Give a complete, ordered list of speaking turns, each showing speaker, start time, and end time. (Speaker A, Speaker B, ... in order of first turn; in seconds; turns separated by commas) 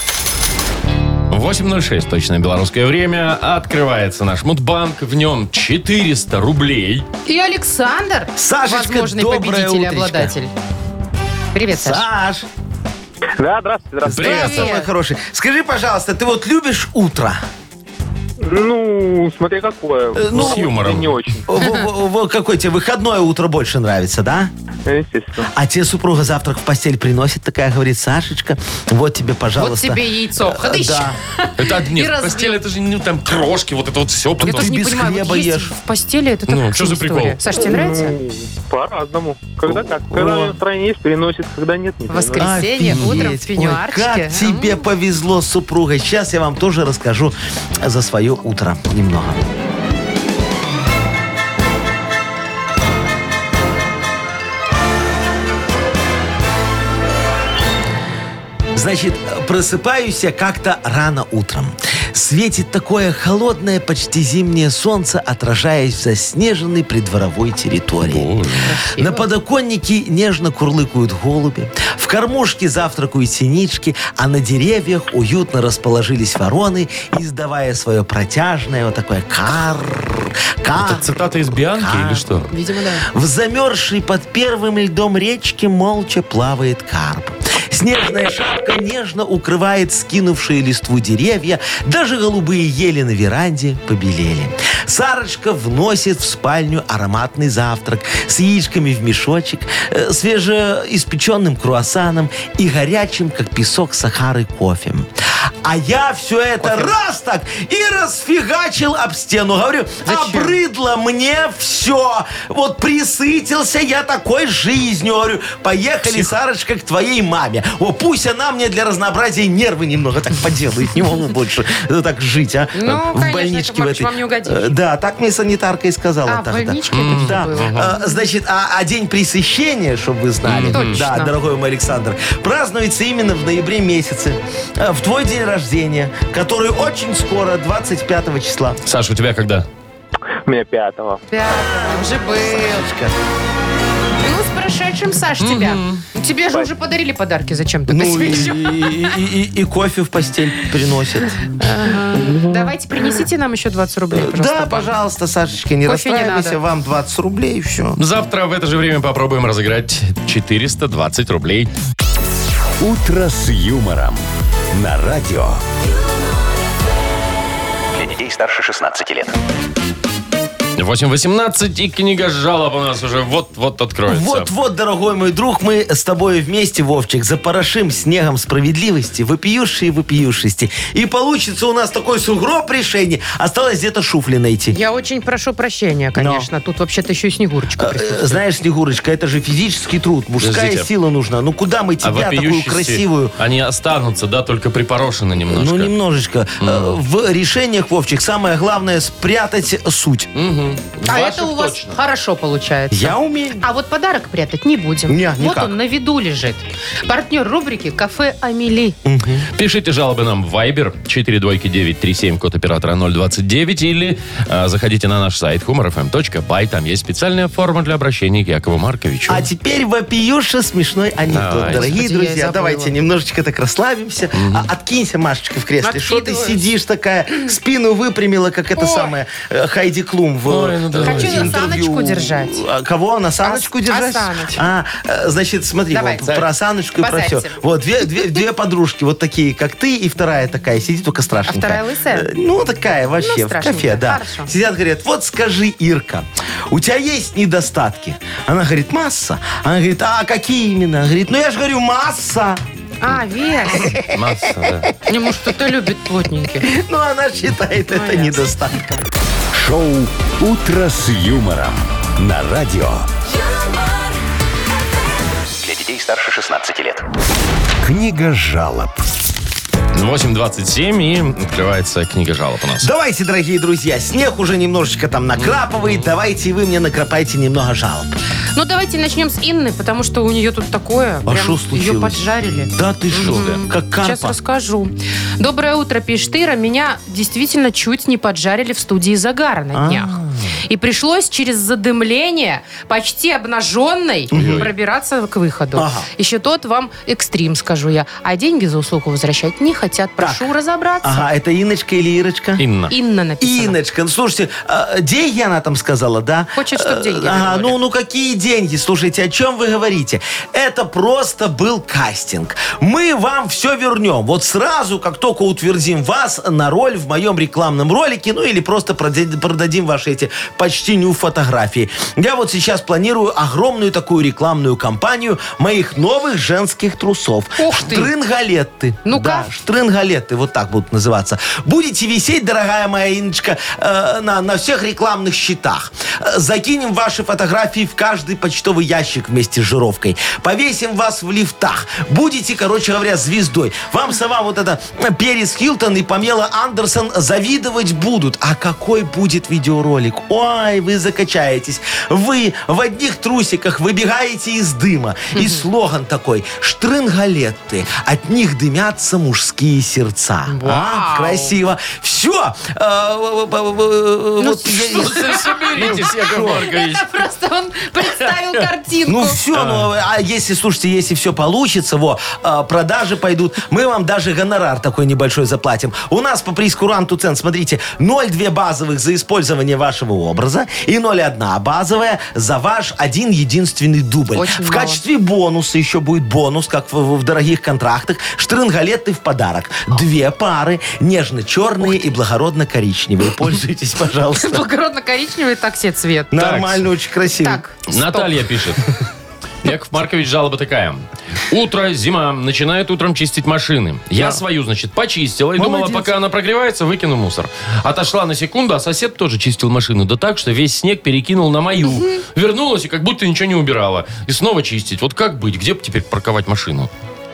Speaker A: 1.3-7.1, Speaker B: 7.3-10.5, Speaker C: 8.4-10.3, Speaker B: 11.5-12.1, Speaker C: 11.7-12.5, Speaker D: 13.4-14.3, Speaker C: 14.1-17.4, Speaker A: 14.1-14.7, Speaker B: 14.2-14.9, Speaker D: 18.4-21.4, Speaker C: 20.1-20.8, Speaker A: 20.3-21.2, Speaker C: 21.5-24.5, Speaker D: 24.9-25.5, Speaker C: 25.5-31.2, Speaker B: 29.6-32.6, Speaker A: 31.6-34.7, Speaker C: 34.4-35.7, Speaker B: 34.4-38.2, Speaker A: 36.5-37.4, Speaker D: 37.6-42.5, Speaker C: 39.7-40.6, Speaker B: 42.1-44.8, Speaker C: 42.4-49.5, Speaker C: 58.7-68.3, Speaker A: 68.0-68.7, Speaker B: 68.7-69.3, Speaker C: 68.9-81.1, Speaker A: 80.8-82.5, Speaker C: 81.7-82.5, Speaker B: 82.5-83.0, Speaker C: 83.0-105.1, Speaker C: 105.6-138.8, Speaker B: 110.0-110.6, Speaker B: 122.7-124.8, Speaker B: 126.3-128.2, Speaker A: 126.9-127.9, Speaker A: 130.4-131.1, Speaker B: 130.7-131.3, Speaker A: 138.8-139.7, Speaker D: 140.5-141.2, Speaker B: 141.3-142.9, Speaker C: 141.5-143.2, Speaker B: 144.2-148.9, Speaker A: 145.4-146.0, Speaker C: 147.9-151.4, Speaker B: 151.6-154.9, Speaker C: 154.1-158.0, Speaker B: 155.8-156.6, Speaker A: 158.0-161.7, Speaker E: 162.8-165.6, Speaker F: 167.9-169.4, Speaker A: 170.8-174.5, Speaker C: 174.1-184.8, Speaker B: 184.7-188.4, Speaker C: 186.2-186.5, Speaker C: 187.8-193.3, Speaker A: 190.4-190.9, Speaker A: 192.0-195.9, Speaker C: 195.5-200.3, Speaker A: 196.6-197.0, Speaker A: 200.3-202.0, Speaker B: 201.1-209.0, Speaker C: 202.9-203.7, Speaker C: 205.1-205.8, Speaker C: 209.1-209.5, Speaker A: 209.6-219.5, Speaker C: 219.3-252.6, Speaker A: 221.3-221.9, Speaker B: 221.7-222.9, Speaker A: 224.3-224.7, Speaker B: 225.8-226.6, Speaker B: 228.8-229.1, Speaker A: 230.5-231.6, Speaker B: 231.0-232.6, Speaker B: 233.4-234.6, Speaker B: 235.9-236.4, Speaker B: 237.0-238.3, Speaker B: 241.5-242.3, Speaker B: 243.2-244.5, Speaker B: 253.0-254.0, Speaker C: 253.7-254.9, Speaker A: 254.1-254.9, Speaker B: 255.1-256.7, Speaker C: 256.6-259.1, Speaker B: 257.9-258.4, Speaker E: 259.5-263.1, Speaker F: 265.6-267.0, Speaker E: 267.8-269.0, Speaker A: 269.9-272.9, Speaker C: 272.8-278.1, Speaker A: 275.4-276.1, Speaker B: 278.6-301.3, Speaker C: 281.3-284.4, Speaker A: 283.2-283.6, Speaker C: 289.7-290.6, Speaker C: 294.3-294.7, Speaker A: 294.3-294.7, Speaker C: 295.8-296.1, Speaker C: 300.2-300.4, Speaker C: 301.0-302.6, Speaker A: 302.6-302.9, Speaker B: 302.9-303.8, Speaker C: 303.4-366.6, Speaker B: 306.6-307.8, Speaker B: 327.6-328.1, Speaker B: 329.1-329.5, Speaker B: 355.3-355.6, Speaker B: 360.5-361.6, Speaker B: 364.4-369.4, Speaker A: 365.0-367.1, Speaker A: 368.3-368.6, Speaker C: 369.1-394.6, Speaker A: 369.5-369.9, Speaker B: 384.3-385.0, Speaker B: 391.8-392.1, Speaker B: 394.4-396.3, Speaker C: 396.3-397.6, Speaker A: 396.4-396.9, Speaker B: 397.4-398.3, Speaker A: 397.9-398.8, Speaker A: 399.6-416.9, Speaker B: 405.6-406.0, Speaker B: 411.9-412.2